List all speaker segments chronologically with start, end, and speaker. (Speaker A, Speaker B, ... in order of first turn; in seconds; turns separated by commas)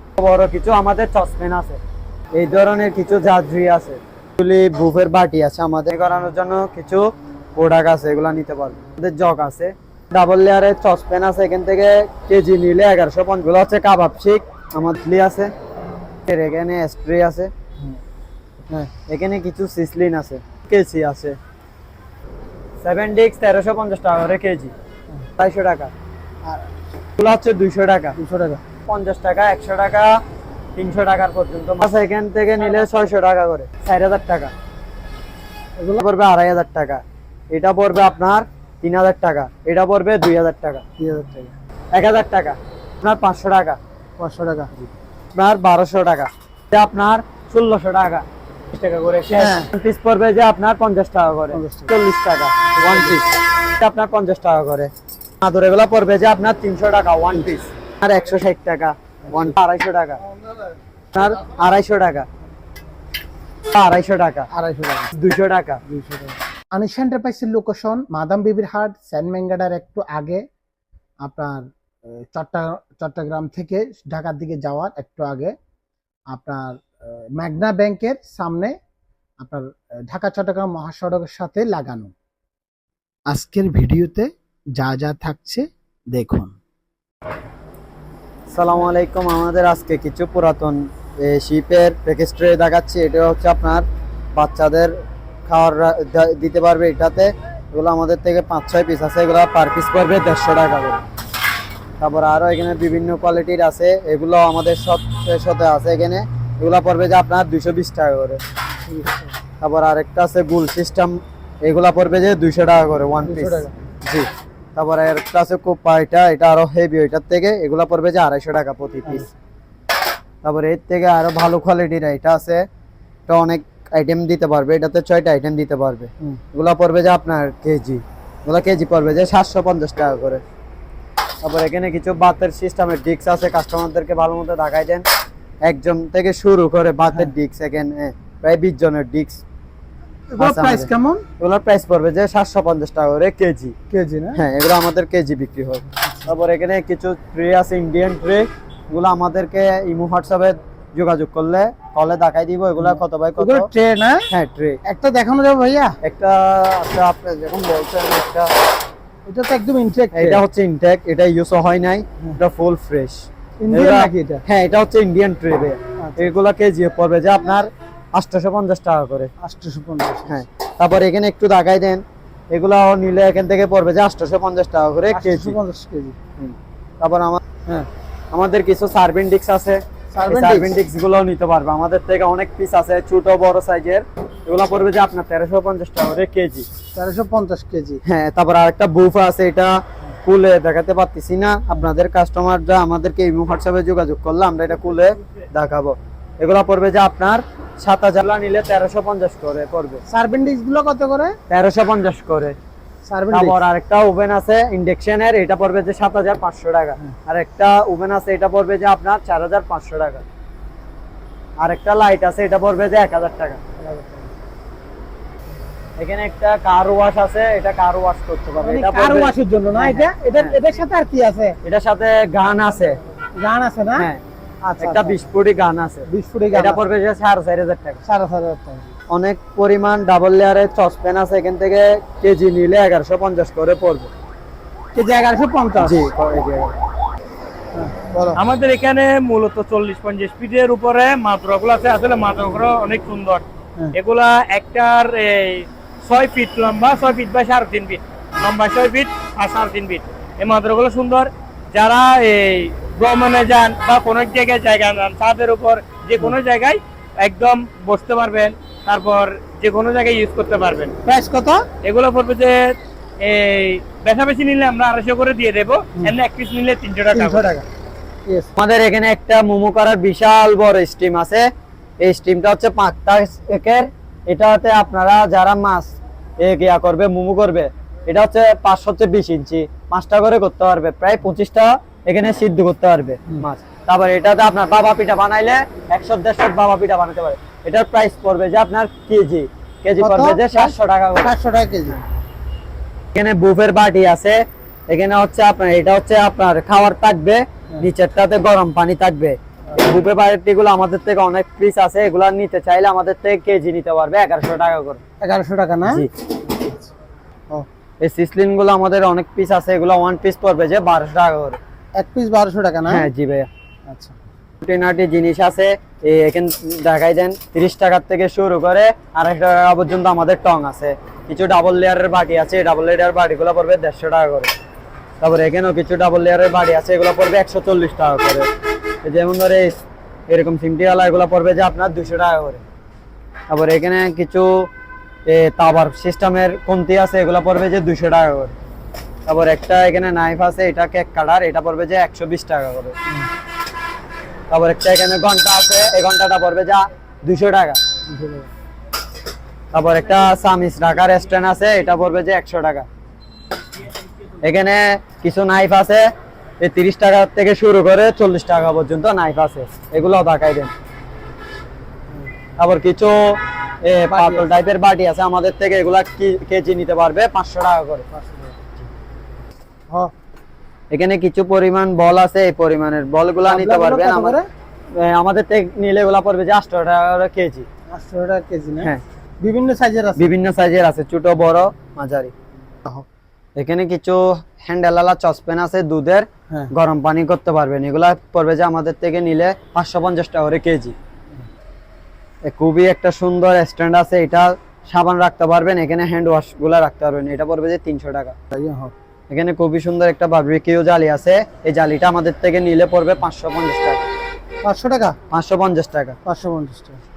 Speaker A: 0.2-1.8, Speaker A: 2.3-15.5, Speaker A: 16.2-17.5, Speaker A: 19.1-21.4, Speaker A: 22.8-24.7, Speaker A: 25.4-25.9, Speaker B: 26.4-26.7, Speaker A: 27.2-28.2, Speaker B: 28.2-28.6, Speaker A: 28.9-30.2, Speaker A: 30.8-34.5, Speaker B: 35.8-36.0, Speaker A: 36.0-40.8, Speaker B: 41.0-41.5, Speaker A: 41.9-43.8, Speaker B: 44.2-44.7, Speaker A: 45.3-60.2, Speaker B: 49.3-49.7, Speaker B: 51.5-51.9, Speaker B: 52.8-53.2, Speaker B: 59.2-59.6, Speaker A: 61.1-62.3, Speaker A: 63.7-64.5, Speaker B: 64.5-65.1, Speaker A: 65.1-65.8, Speaker B: 65.8-70.5, Speaker B: 71.2-75.5, Speaker B: 76.3-78.7, Speaker B: 79.4-82.1, Speaker B: 83.3-86.5, Speaker A: 88.5-94.9, Speaker A: 95.5-101.0, Speaker A: 102.0-108.4, Speaker B: 108.8-109.3, Speaker A: 109.6-119.3, Speaker B: 113.2-113.7, Speaker B: 119.0-119.3, Speaker A: 120.4-122.6, Speaker A: 123.3-130.4, Speaker A: 131.4-135.0, Speaker A: 135.6-139.4, Speaker B: 140.3-141.2, Speaker A: 140.4-140.9, Speaker A: 141.4-143.7, Speaker B: 143.9-144.4, Speaker A: 144.3-153.7, Speaker B: 152.8-154.3, Speaker A: 154.3-154.8, Speaker B: 154.8-156.0, Speaker A: 156.0-158.5, Speaker B: 159.2-160.4, Speaker A: 160.1-169.3, Speaker B: 163.6-164.4, Speaker B: 166.0-166.3, Speaker B: 169.4-170.4, Speaker A: 170.3-175.6, Speaker B: 175.1-176.2, Speaker A: 176.4-177.4, Speaker A: 178.3-186.7, Speaker B: 180.1-180.7, Speaker B: 186.9-188.0, Speaker A: 188.0-200.0, Speaker B: 200.1-201.3, Speaker A: 201.5-202.6, Speaker B: 203.1-203.6, Speaker A: 203.3-210.2, Speaker A: 211.6-213.6, Speaker B: 213.8-214.3, Speaker A: 216.0-220.6, Speaker B: 218.6-221.6, Speaker A: 221.6-223.0, Speaker B: 223.3-224.1, Speaker B: 224.6-225.2, Speaker A: 224.8-228.0, Speaker B: 226.1-226.8, Speaker B: 228.0-228.9, Speaker A: 229.1-234.1, Speaker B: 234.9-236.1, Speaker A: 235.8-236.7, Speaker B: 237.7-238.4, Speaker C: 238.3-260.9, Speaker B: 261.0-261.7, Speaker C: 261.8-267.4, Speaker B: 267.1-267.6, Speaker B: 268.2-268.5, Speaker A: 268.6-271.5, Speaker A: 272.0-291.3, Speaker B: 290.0-292.0, Speaker A: 293.1-305.0, Speaker B: 305.2-306.9, Speaker A: 308.0-311.6, Speaker B: 311.9-313.1, Speaker A: 312.9-313.5, Speaker B: 313.9-314.2, Speaker A: 314.6-324.5, Speaker A: 325.2-328.5, Speaker A: 329.0-329.8, Speaker A: 330.3-332.6, Speaker A: 333.5-334.7, Speaker A: 335.2-338.5, Speaker A: 339.3-342.9, Speaker A: 344.5-347.8, Speaker B: 348.1-348.5, Speaker A: 349.7-352.9, Speaker A: 354.4-356.0, Speaker A: 356.6-360.7, Speaker A: 362.6-368.1, Speaker B: 364.1-364.5, Speaker B: 368.1-368.5, Speaker A: 370.9-374.4, Speaker B: 373.4-374.4, Speaker A: 374.9-377.7, Speaker B: 377.9-380.3, Speaker A: 380.2-382.3, Speaker A: 383.6-390.9, Speaker A: 392.4-398.3, Speaker B: 398.5-398.9, Speaker A: 399.3-404.1, Speaker B: 404.6-405.1, Speaker A: 405.3-406.2, Speaker B: 406.2-407.0